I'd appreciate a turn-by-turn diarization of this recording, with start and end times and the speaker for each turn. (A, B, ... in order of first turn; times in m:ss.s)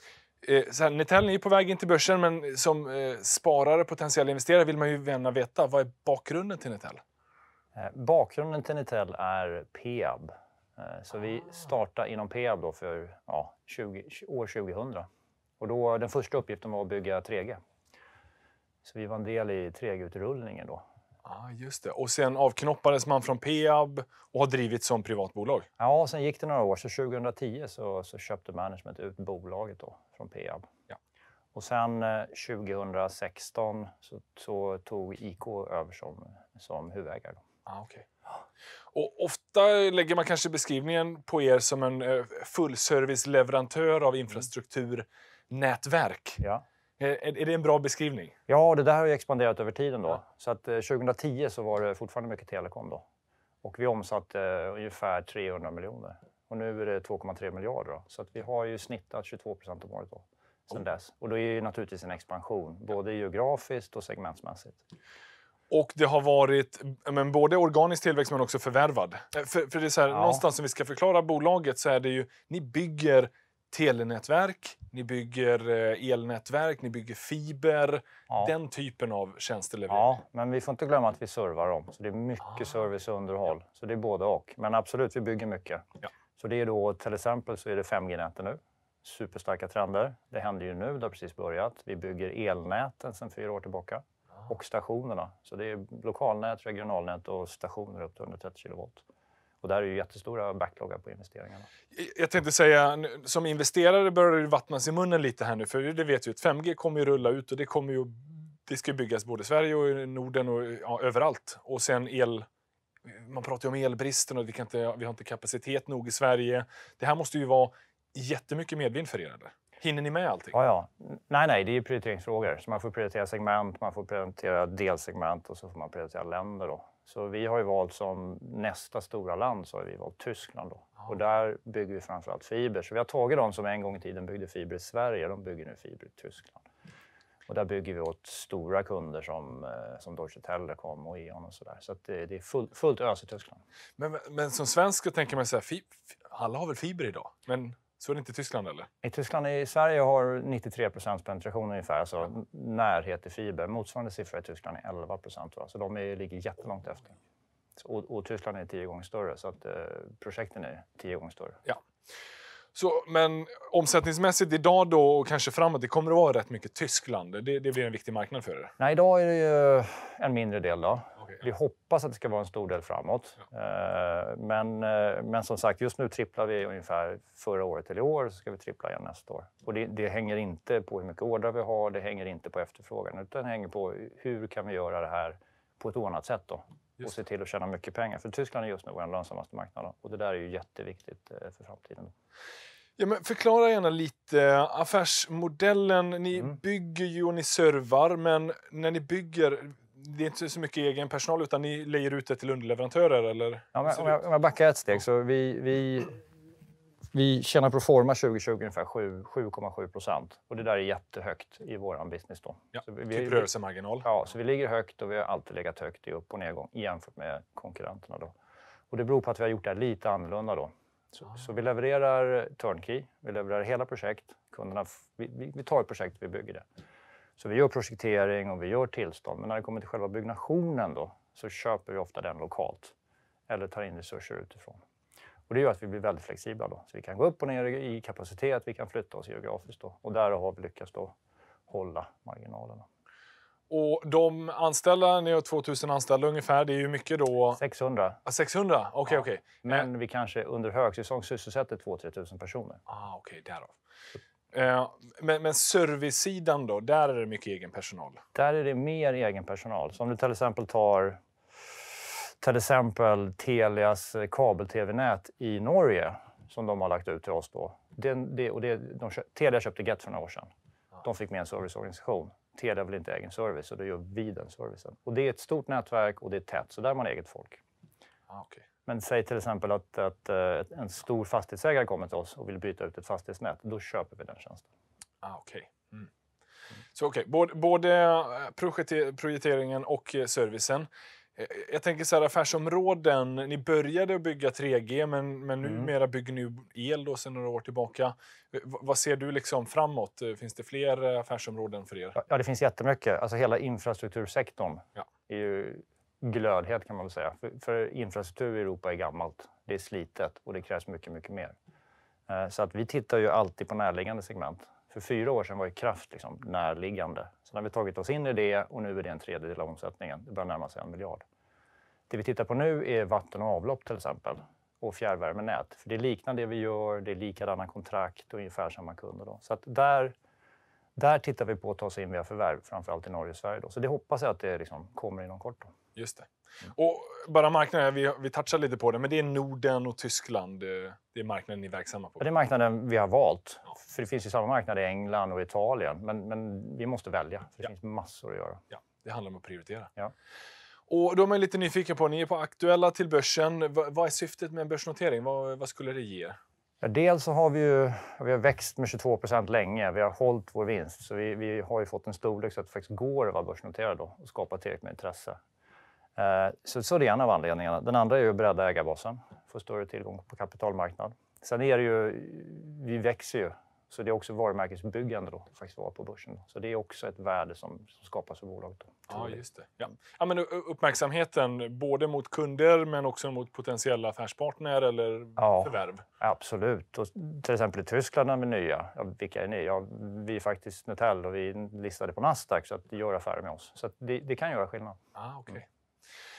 0:00.4-0:07.0 A
0:07.8-0:15.1 B
0:15.6-0:17.6 B
0:18.8-0:20.8 B
0:21.2-0:25.7 A
0:25.8-0:30.7 B
0:31.5-0:37.4 B
0:37.7-0:38.1 A
0:38.9-0:46.4 A
0:47.0-0:48.4 A
0:48.5-0:53.0 B
0:53.6-1:04.8 B
1:05.7-1:20.2 A
1:10.1-1:10.4 B
1:19.9-1:25.8 B
1:26.4-1:39.0 B
1:39.6-1:41.7 B
1:41.9-1:52.5 A
1:53.1-2:00.6 A
2:00.5-2:16.6 B
2:17.5-2:23.6 B
2:24.0-2:28.9 A
2:29.0-2:37.2 B
2:37.8-2:41.6 B
2:42.8-2:48.7 A
2:48.8-3:12.1 B
3:13.0-3:24.2 A
3:23.8-3:26.2 B
3:27.1-3:33.5 B
3:32.7-3:34.1 A
3:34.0-3:38.3 B
3:38.9-3:46.6 B
3:47.4-3:52.9 B
3:53.5-3:54.8 B
3:55.5-4:01.1 B
4:01.7-4:02.9 B
4:03.7-4:07.6 A
4:07.6-4:08.2 B
4:08.3-4:09.9 A
4:09.1-4:12.8 B
4:12.9-4:13.7 A
4:14.5-4:18.2 A
4:18.4-4:21.2 B
4:21.9-4:30.5 B
4:31.0-4:37.6 B
4:38.3-4:38.6 A
4:38.9-4:44.7 B
4:45.2-4:46.1 A
4:46.9-5:02.2 A
4:55.6-4:55.9 B
5:02.2-5:11.6 B
5:12.3-5:21.2 B
5:22.1-5:30.1 B
5:31.0-5:35.7 B
5:36.0-5:42.2 A
5:42.2-5:48.6 B
5:48.7-5:49.9 A
5:50.9-5:56.4 A
5:56.8-6:05.4 B
6:06.2-6:19.4 B
6:19.1-6:26.0 A
6:25.4-6:35.0 B
6:35.2-6:35.7 A